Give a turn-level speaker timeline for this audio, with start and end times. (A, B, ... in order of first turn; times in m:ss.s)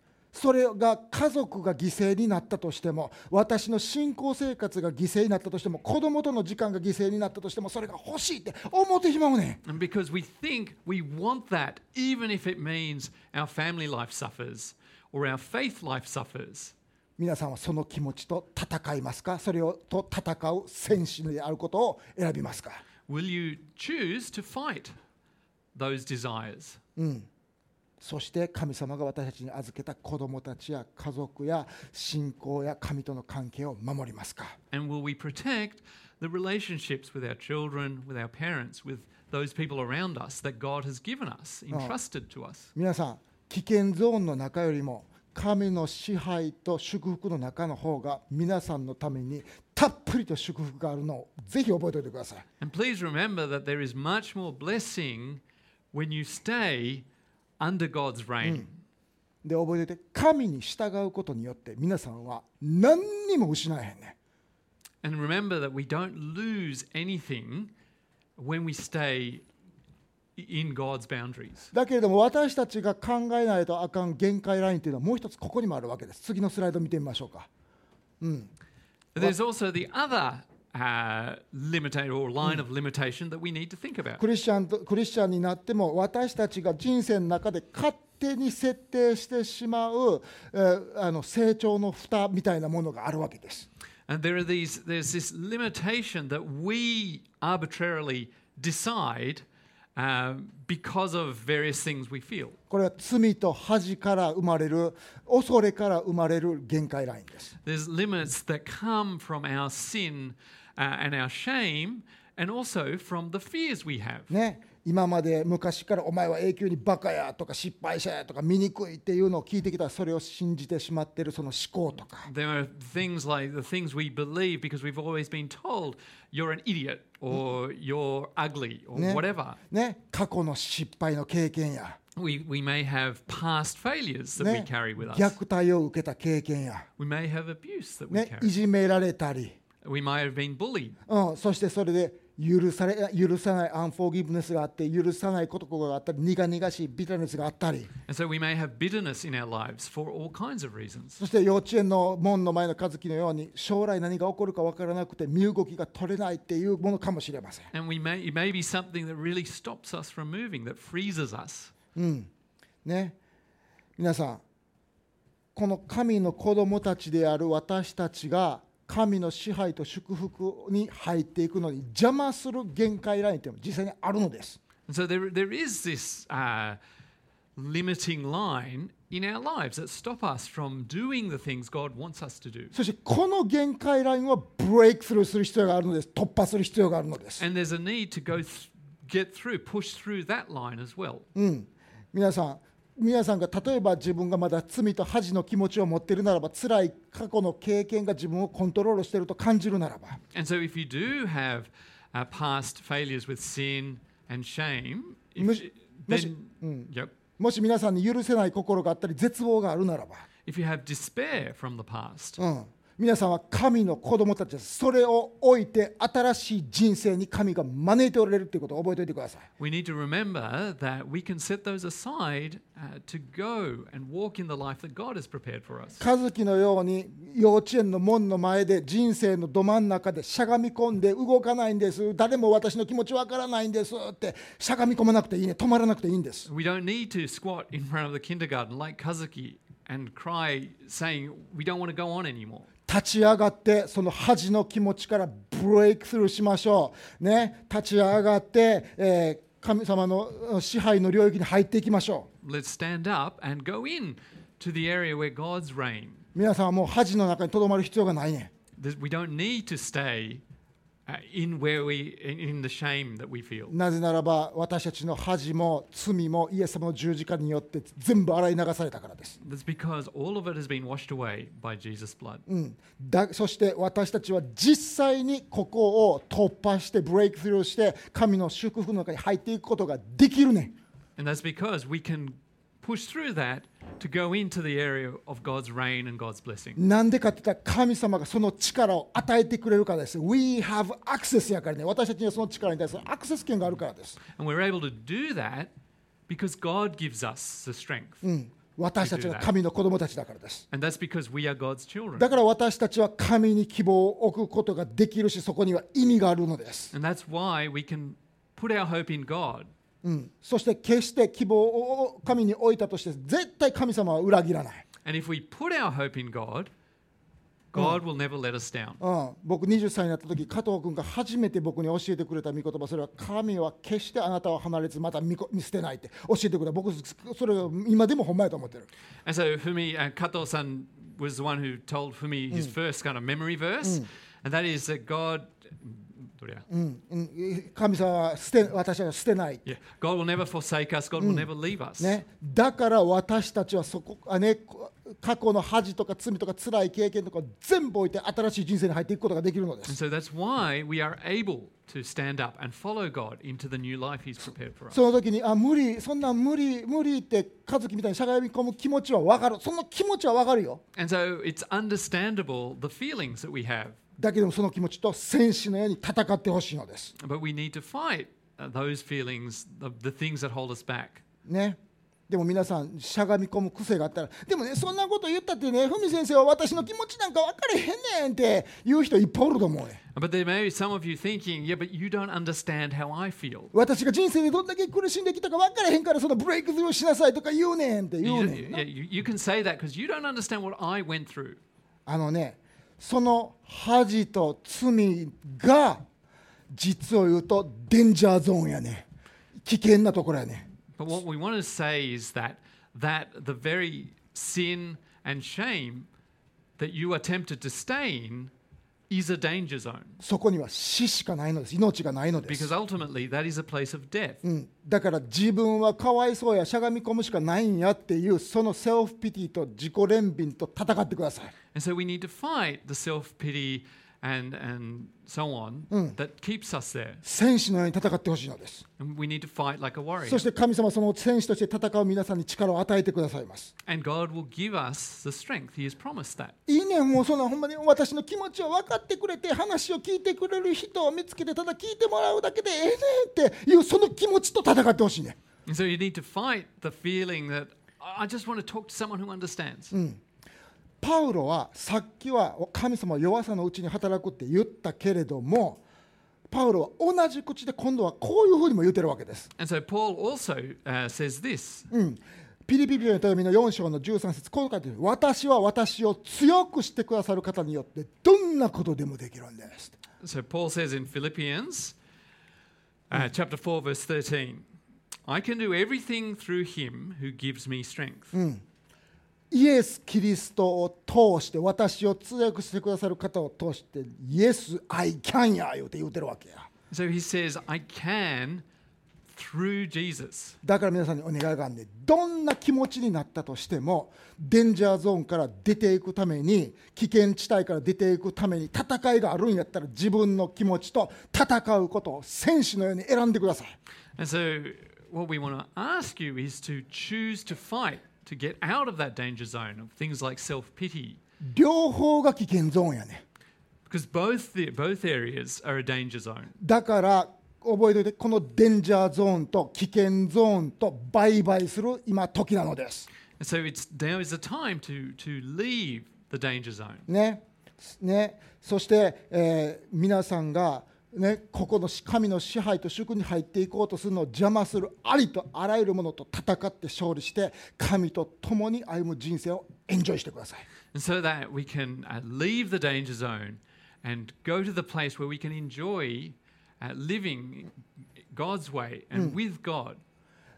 0:00.3-0:09.6 A
0:09.6-0:16.7 B
0:17.2-0:22.8 A
0:23.1-0:25.0 B
0:25.7-0:26.8 B
0:27.0-0:27.3 A
0:28.0-0:34.6 A
0:34.7-0:42.7 B
0:42.7-0:52.4 A
0:52.6-0:57.0 B
0:57.6-0:58.8 B
0:59.4-1:04.1 A
1:05.0-1:07.7 B
1:08.4-1:09.4 B
1:10.4-1:11.7 B
1:11.7-1:17.5 A
1:18.2-1:18.5 A
1:19.1-1:24.2 B
1:24.2-1:33.7 A
1:34.1-1:42.6 B
1:42.7-1:47.5 A
1:47.6-1:54.3 B
1:54.3-2:02.3 A
2:02.2-2:09.6 B
2:08.9-2:12.0 A
2:12.1-2:15.4 B
2:14.4-2:16.9 A
2:17.0-2:18.5 B
2:18.1-2:19.6 A
2:19.8-2:21.0 B
2:21.1-2:27.9 A
2:28.1-2:31.2 B
2:31.2-2:37.7 A
2:37.7-2:41.7 B
2:41.9-2:42.3 A
2:42.8-2:43.2 A
2:44.0-2:44.4 A
2:45.5-2:54.6 A
2:54.9-2:56.8 B
2:57.6-3:02.8 B
3:02.7-3:07.4 A
3:07.4-3:11.3 B
3:11.4-3:20.2 A
3:20.3-3:27.1 B
3:25.4-3:30.2 A
3:30.4-3:32.4 B
3:32.4-3:39.5 A
3:39.6-3:46.0 B
3:46.0-3:56.5 A
3:56.4-4:02.7 B
4:02.9-4:12.3 A
4:12.4-4:16.2 B
4:16.4-4:18.5 A
4:18.8-4:20.4 B
4:21.1-4:23.7 B
4:23.7-4:29.4 A
4:29.4-4:32.4 B
4:32.5-4:40.8 A
4:41.2-4:46.8 B
4:46.8-4:54.2 A
4:54.2-4:55.7 B
4:56.3-4:58.2 B
4:58.2-5:00.6 A
4:59.0-4:59.5 B
5:00.7-5:02.3 B
5:02.2-5:06.9 A
5:06.9-5:09.7 B
5:10.0-5:14.8 A
5:15.0-5:16.7 B
5:17.7-5:19.0 B
5:19.0-5:28.9 A
5:29.2-5:36.6 B
5:36.7-5:39.6 A
5:39.6-5:42.2 B
5:41.2-5:41.5 A
5:42.0-5:50.0 A
5:49.8-5:55.0 B
5:54.9-6:00.8 A
6:00.9-6:04.0 B
6:04.2-6:07.1 A
6:07.2-6:11.2 B
6:11.4-6:11.8 A
6:12.3-6:20.0 A
6:20.1-6:23.7 B
6:23.7-6:28.8 A
6:28.2-6:31.6 B
6:32.1-6:36.0 A
6:36.7-6:39.1 A
6:39.6-6:40.6 A
6:41.0-6:46.1 B
6:46.8-6:48.5 B
6:49.1-6:50.2 B
6:50.2-6:52.7 A
6:52.4-6:54.4 B
6:54.4-7:01.5 A
7:01.7-7:07.2 B
7:05.9-7:06.2 A
7:07.2-7:08.8 A
7:09.0-7:10.4 B
7:10.2-7:13.7 A
7:13.8-7:16.5 B
7:16.7-7:25.4 A
7:25.6-7:29.9 B
7:29.9-7:30.2 A
7:31.0-7:35.8 A
7:36.5-7:39.5 A
7:39.6-7:41.8 B
7:41.9-7:49.9 A
7:50.2-7:52.0 B
7:53.1-7:54.6 B
7:55.2-7:58.3 B
7:58.3-7:58.6 A
7:59.5-8:06.7 A
8:06.9-8:08.6 B
8:09.3-8:10.6 B
8:10.6-8:23.8 A
8:24.2-8:31.2 B
8:31.4-8:33.2 A
8:33.8-8:36.5 B
8:36.6-8:43.1 A
8:43.4-8:47.1 B
8:47.1-9:00.6 A
9:00.9-9:07.7 B
9:08.3-9:10.0 B